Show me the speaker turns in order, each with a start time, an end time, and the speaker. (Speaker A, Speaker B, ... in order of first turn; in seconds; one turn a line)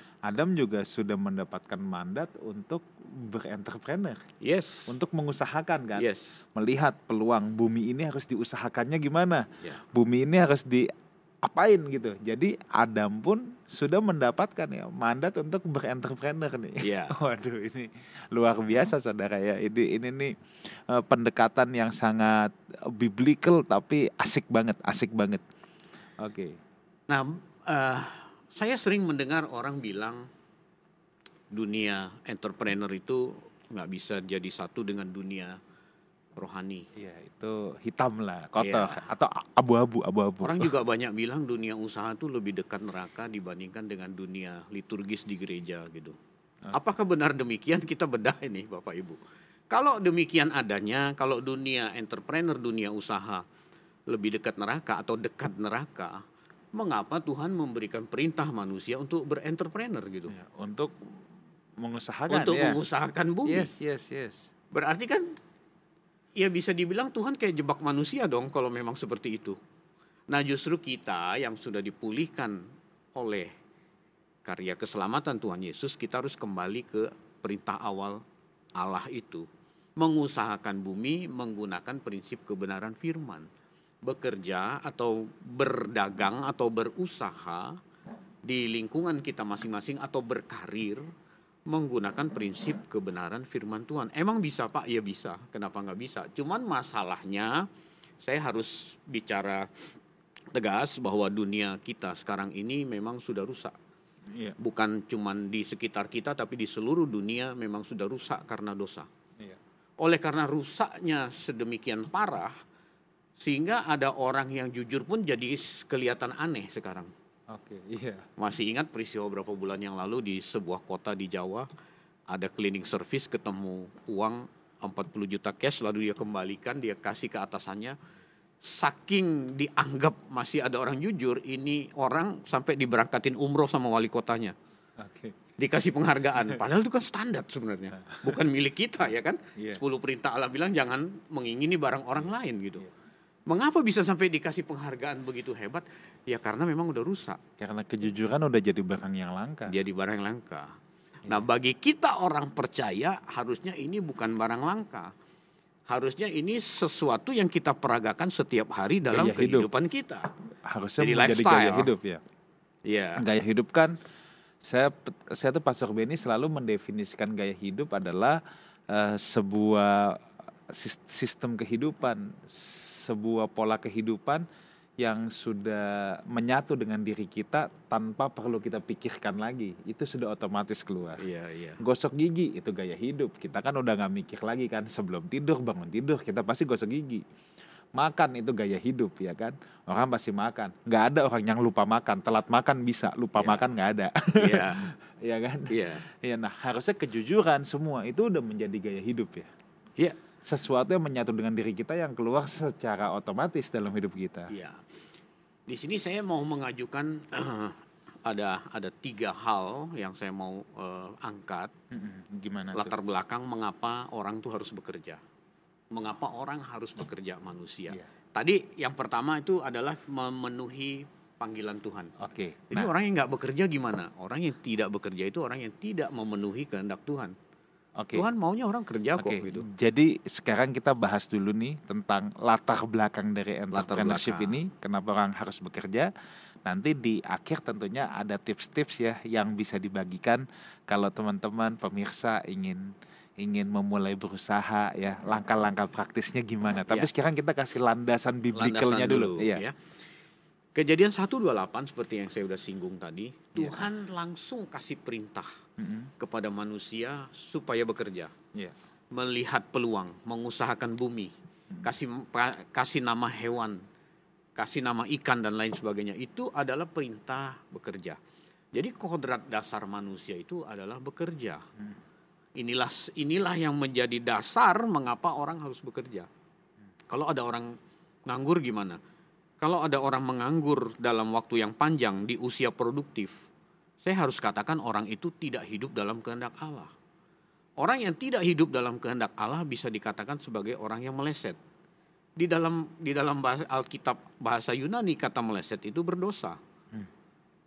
Speaker A: 0.2-4.2
Speaker B: 4.4-4.9
Speaker A: 4.9-10.9
Speaker B: 6.0-6.4
Speaker A: 11.4-25.4
Speaker B: 16.8-17.2
Speaker A: 26.2-26.6
Speaker B: 27.1-30.2
Speaker B: 31.5-35.6
Speaker B: 36.4-36.9
Speaker A: 36.9-40.7
Speaker B: 38.6-39.0
Speaker B: 40.4-46.2
Speaker B: 46.7-49.2
Speaker B: 49.7-53.4
Speaker B: 54.1-56.2
Speaker B: 56.7-60.3
Speaker A: 60.3-61.1
Speaker A: 61.8-62.8
Speaker B: 62.3-63.7
Speaker A: 63.5-64.5
Speaker B: 64.7-65.4
Speaker B: 66.3-69.6
Speaker B: 70.3-72.6
Speaker B: 73.2-73.5
Speaker B: 74.4-78.2
Speaker B: 78.8-79.5
Speaker B: 80.0-83.5
Speaker B: 84.0-87.8
Speaker B: 88.4-91.1
Speaker B: 91.7-97.7
Speaker B: 98.2-99.9
Speaker B: 100.5-103.7
Speaker B: 104.6-109.1
Speaker B: 110.0-112.5
Speaker B: 113.4-117.1
Speaker A: 117.5-118.2
Speaker B: 118.4-121.7
Speaker B: 122.3-128.0
Speaker B: 128.6-134.5
Speaker A: 135.0-135.3
Speaker B: 135.6-142.9
Speaker A: 137.9-138.4
Speaker A: 142.2-142.9
Speaker B: 143.5-147.4
Speaker A: 147.6-149.7
Speaker B: 149.7-150.7
Speaker B: 151.2-155.1
Speaker B: 155.9-160.3
Speaker A: 159.1-159.7
Speaker A: 160.6-162.2
Speaker B: 161.0-161.9
Speaker B: 162.8-163.2
Speaker A: 163.2-163.9
Speaker A: 164.6-168.4
Speaker A: 168.9-174.4
Speaker A: 175.0-181.2
Speaker B: 181.2-181.8
Speaker A: 181.8-187.2
Speaker A: 187.9-199.5
Speaker B: 193.3-193.7
Speaker B: 194.3-194.9
Speaker B: 195.7-196.1
Speaker A: 200.4-204.5
Speaker B: 204.5-205.1
Speaker B: 205.7-211.7
Speaker A: 211.9-212.9
Speaker B: 212.7-215.2
Speaker B: 215.9-222.1
Speaker A: 222.2-222.9
Speaker B: 222.7-227.3
Speaker A: 228.0-228.2
Speaker B: 228.1-229.6
Speaker A: 229.2-236.1
Speaker B: 233.7-234.6
Speaker A: 236.6-249.6
Speaker B: 248.5-250.1
Speaker B: 250.7-255.5
Speaker A: 253.6-253.9
Speaker A: 255.8-256.1
Speaker B: 256.2-258.3
Speaker B: 259.1-261.3
Speaker B: 261.8-263.8
Speaker B: 264.6-268.2
Speaker B: 268.7-271.6
Speaker B: 272.6-276.3
Speaker B: 277.1-277.7
Speaker B: 278.2-279.0
Speaker B: 279.6-283.3
Speaker B: 284.0-286.9
Speaker B: 287.8-291.6
Speaker B: 292.4-296.6